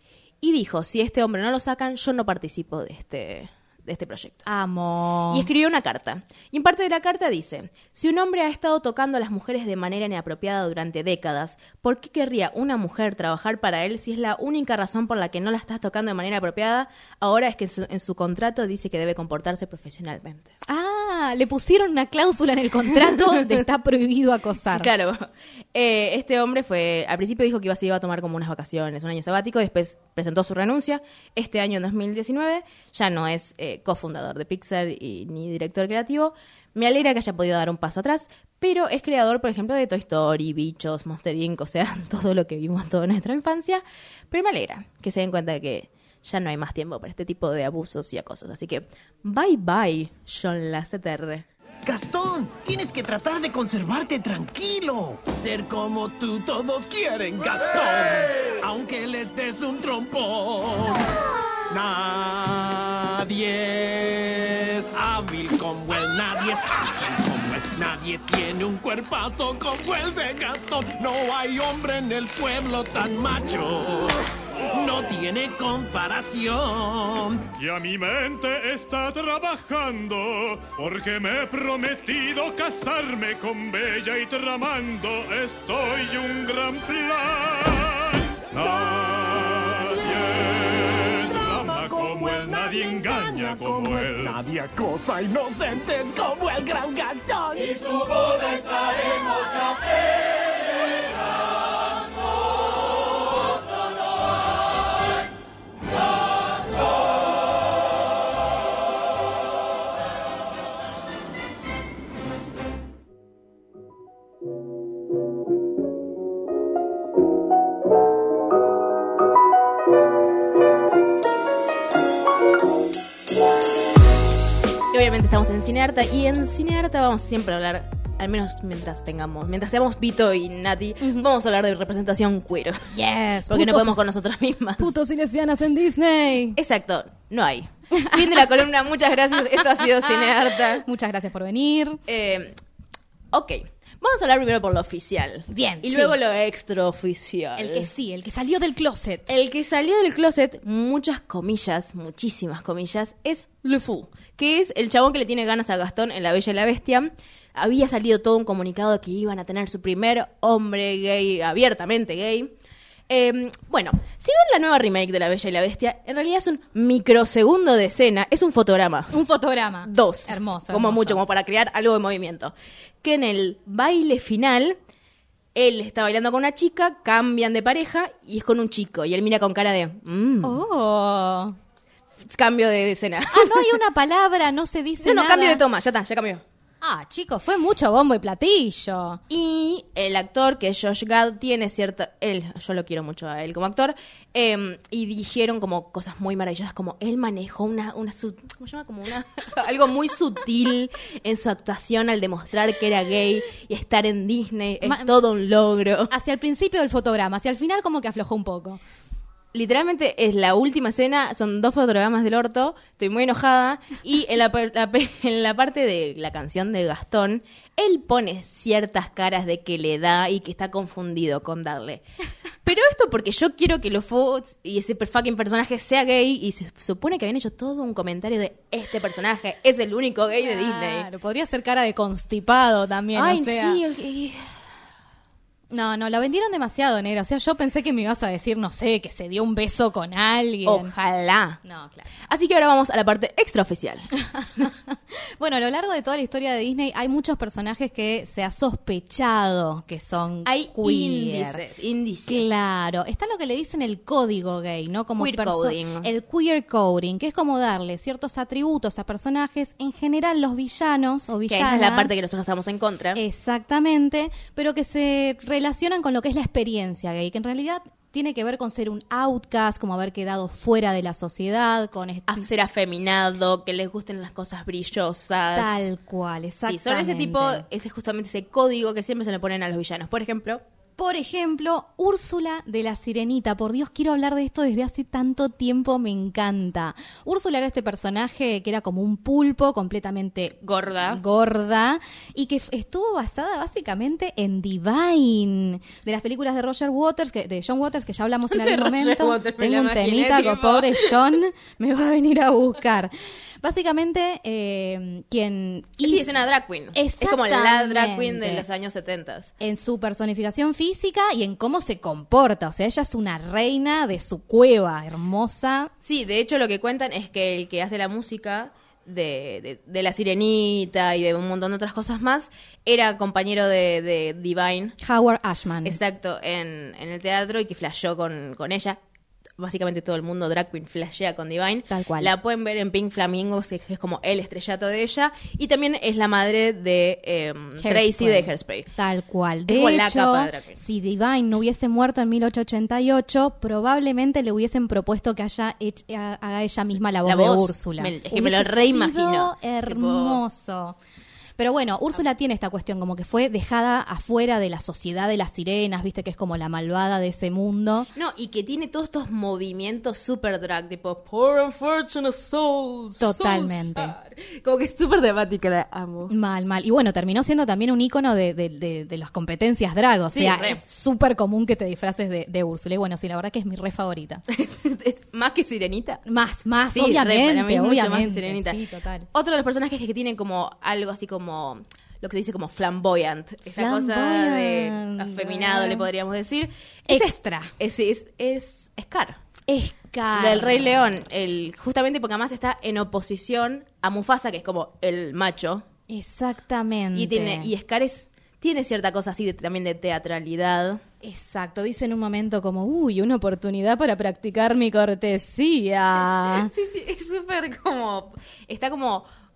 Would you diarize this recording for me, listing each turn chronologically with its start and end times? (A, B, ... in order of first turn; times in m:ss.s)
0:00.4-0:04.4 A
0:04.4-0:05.5 B
0:05.3-0:20.5 A
0:20.7-0:24.9 B
0:23.0-0:23.6 A
0:24.7-0:51.4 A
0:51.8-1:01.0 C
1:01.7-1:14.2 C
1:14.7-1:17.5 C
1:17.6-1:34.4 D
1:31.3-1:38.4 C
2:04.9-2:12.9 A
2:12.9-2:14.0 B
2:13.5-2:14.9 A
2:14.8-2:16.6 B
2:16.6-2:20.8 A
2:20.8-2:22.0 B
2:22.1-2:22.5 A
2:23.3-2:27.9 A
2:25.5-2:26.2 B
2:27.6-2:29.3 B
2:29.3-2:42.5 A
2:43.1-2:49.1 A
2:49.1-2:51.2 B
2:49.8-2:54.8 A
2:55.5-3:00.6 A
3:00.4-3:01.6 B
3:02.3-3:03.8 A
3:03.3-3:05.6 B
3:05.0-3:06.4 A
3:06.8-3:09.2 B
3:09.3-3:26.1 A
3:24.8-3:25.1 B
3:26.1-3:28.8 B
3:29.5-3:42.0 A
3:42.6-3:51.1 A
3:50.4-3:53.8 B
3:53.1-3:54.4 A
3:55.7-4:00.9 B
4:00.6-4:01.6 A
4:01.6-4:02.1 B
4:02.3-4:04.1 A
4:04.2-4:11.6 B
4:10.4-4:12.6 A
4:12.3-4:22.1 B
4:15.2-4:16.1 A
4:21.5-4:23.2 A
4:23.1-4:32.5 B
4:32.3-4:35.8 A
4:35.5-4:37.6 B
4:36.7-4:40.6 A
4:41.0-5:06.3 B
4:50.6-4:51.2 A
4:58.5-5:01.1 A
5:06.0-5:09.5 A
5:06.9-5:08.6 B
5:09.6-5:15.9 B
5:16.0-5:25.0 A
5:25.0-5:26.0 B
5:25.8-5:29.0 A
5:29.6-5:38.9 A
5:31.9-5:32.3 B
5:37.8-5:51.0 B
5:39.7-5:40.8 A
5:47.2-5:50.4 A
5:51.6-5:58.1 B
5:58.1-6:06.3 A
6:03.2-6:04.1 B
6:06.3-6:14.4 B
6:10.3-6:10.8 A
6:14.5-6:16.2 A
6:16.3-6:19.3 B
6:16.9-6:18.8 A
6:19.3-6:29.4 A
6:23.7-6:26.0 B
6:27.1-6:27.7 B
6:29.7-6:30.9 B
6:30.3-6:35.8 A
6:36.1-6:37.7 B
6:37.1-6:41.0 A
6:41.2-6:46.7 B
6:46.4-6:49.2 A